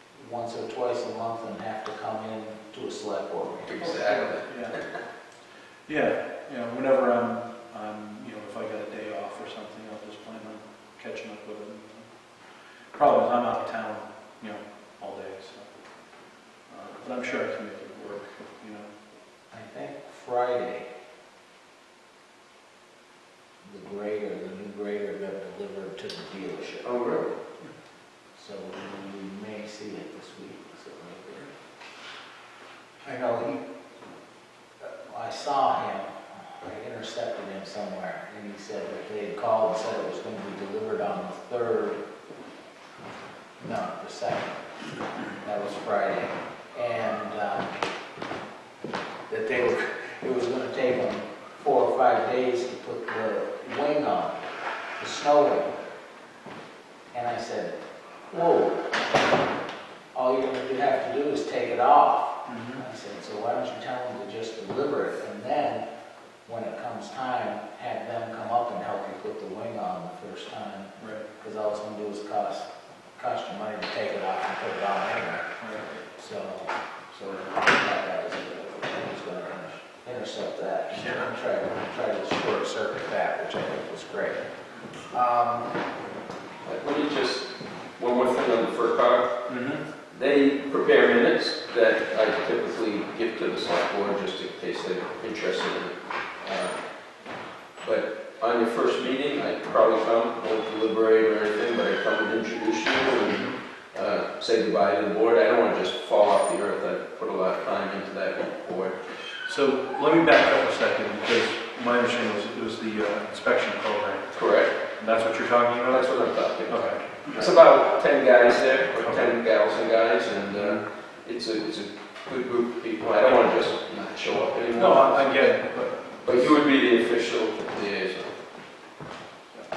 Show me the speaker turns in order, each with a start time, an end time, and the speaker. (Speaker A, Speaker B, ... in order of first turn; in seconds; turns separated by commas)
Speaker A: 0.1-4.1, Speaker B: 3.7-4.9, Speaker C: 4.4-4.8, Speaker C: 5.9-12.1, Speaker C: 12.9-15.7, Speaker C: 16.7-18.9, Speaker A: 19.5-20.9, Speaker A: 23.6-26.9, Speaker B: 26.8-27.4, Speaker A: 28.3-31.5, Speaker A: 33.0-33.6, Speaker A: 34.8-42.0, Speaker A: 43.6-44.6, Speaker A: 45.4-47.7, Speaker A: 49.3-54.4, Speaker A: 55.0-55.7, Speaker A: 57.1-57.7, Speaker A: 58.3-58.9, Speaker A: 60.1-65.8, Speaker C: 62.5-62.8, Speaker A: 66.5-84.5, Speaker C: 71.0-71.2, Speaker C: 75.6-75.9, Speaker C: 80.9-81.3, Speaker A: 85.1-85.7, Speaker B: 86.6-89.3, Speaker C: 89.5-89.8, Speaker B: 90.1-96.8, Speaker B: 97.8-109.0, Speaker C: 109.4-114.3, Speaker B: 114.3-114.7, Speaker C: 114.9-116.1, Speaker B: 115.9-125.4, Speaker C: 116.7-117.5, Speaker C: 119.0-119.3, Speaker C: 120.5-120.8, Speaker C: 124.7-126.4, Speaker B: 126.2-128.3